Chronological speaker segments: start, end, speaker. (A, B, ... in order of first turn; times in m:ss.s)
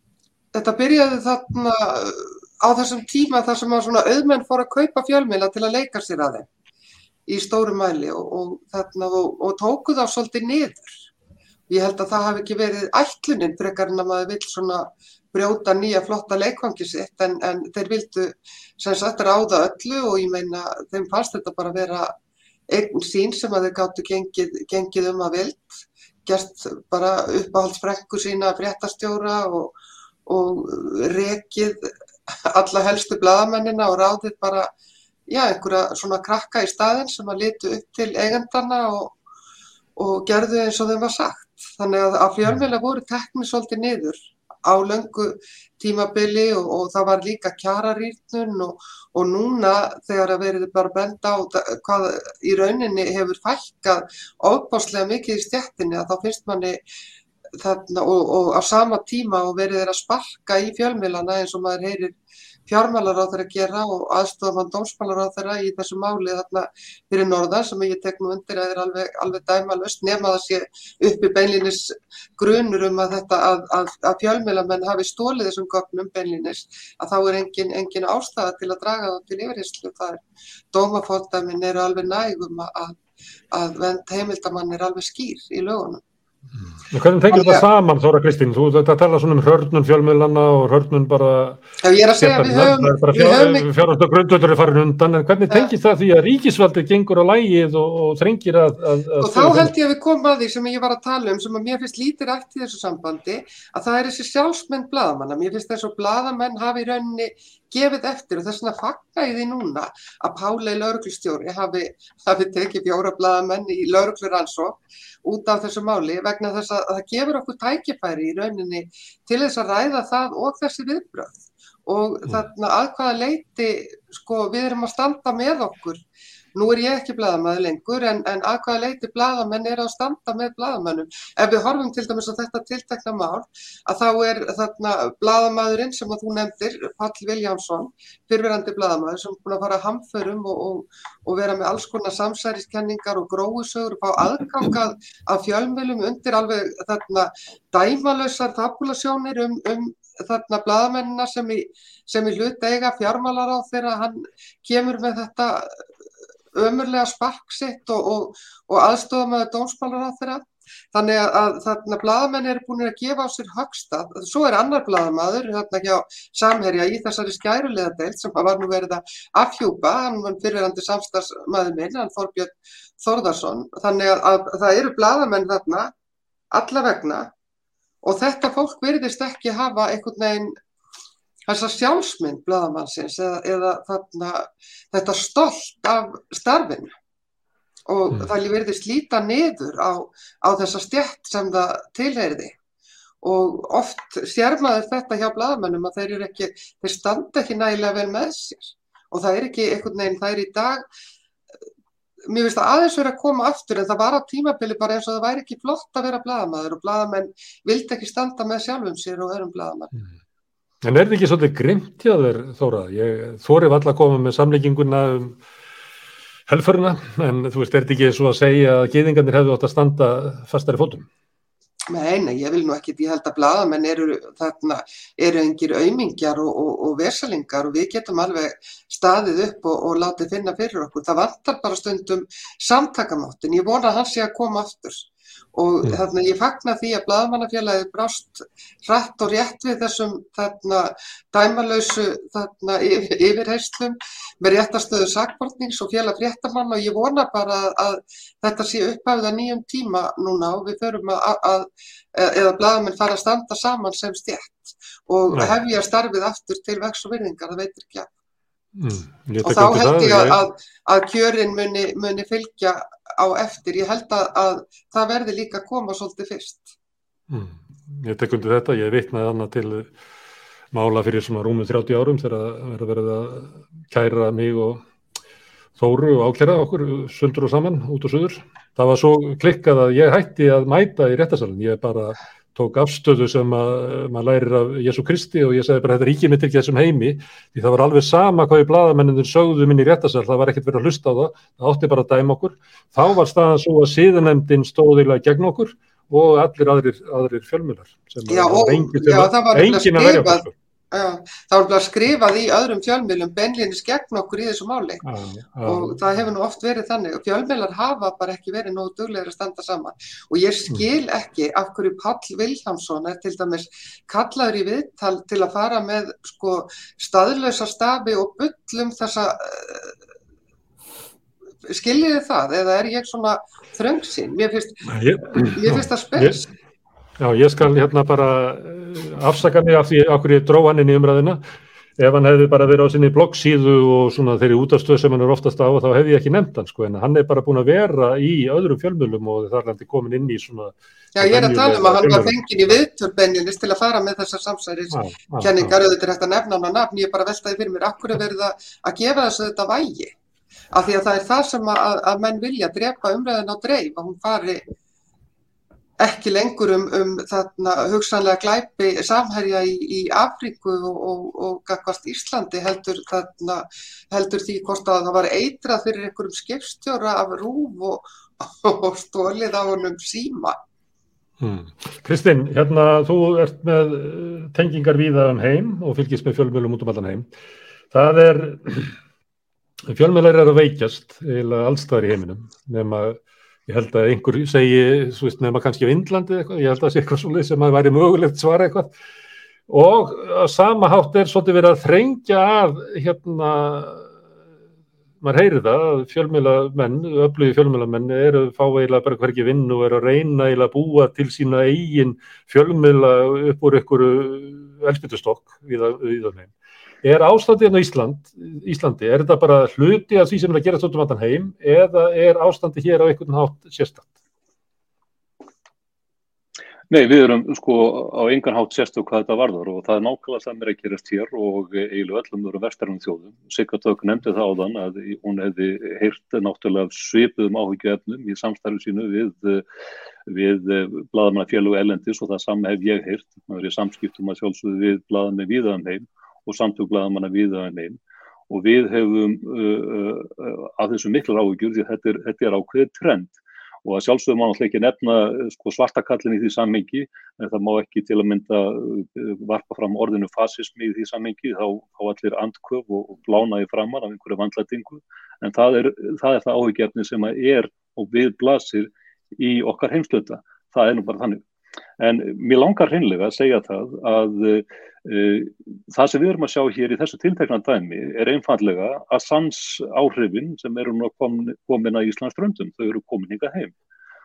0:00.5-0:06.5 A
0:07.3-0:10.9 A
0:11.7-0:22.1 A
0:22.7-0:25.7 A
0:26.2-0:29.7 A
0:30.2-0:31.9 A
0:32.5-0:34.7 A
0:35.3-0:39.2 A
0:40.0-0:56.8 A
0:57.6-1:02.2 A
1:02.7-1:23.0 A
1:23.5-1:26.0 A
1:26.9-1:31.6 B
1:27.3-1:27.6 A
1:31.8-1:33.7 A
1:32.2-1:39.7 B
1:39.2-2:06.0 A
2:06.5-2:35.7 A
2:36.5-2:55.9 A
2:56.5-2:57.3 A
2:58.0-3:00.5 A
3:01.5-3:06.9 A
3:07.9-3:12.6 A
3:13.2-3:20.8 A
3:22.3-3:29.9 A
3:30.8-3:35.4 B
3:36.5-3:41.1 B
3:41.9-4:18.1 A
4:18.8-4:20.4 B
4:19.4-4:26.7 A
4:27.3-4:29.9 B
4:30.7-4:34.8 B
4:35.8-5:00.5 B
4:58.3-5:05.0 A
5:05.0-5:06.0 B
5:05.6-5:19.9 A
5:21.7-5:24.8 A
5:24.9-5:26.5 B
5:25.4-5:26.5 A
5:27.2-5:31.4 B
5:32.0-5:42.8 B
5:41.1-5:50.1 A
5:44.9-5:45.8 B
5:50.7-5:54.6 A
5:56.0-6:10.6 A
6:11.4-6:17.3 B
6:17.9-6:18.9 B
6:19.9-6:28.9 B
6:29.7-6:34.1 B
6:35.2-6:46.5 B
6:47.0-6:54.1 B
6:56.9-7:09.6 C
7:10.3-7:18.0 C
7:18.5-7:41.4 C
7:42.0-7:53.7 C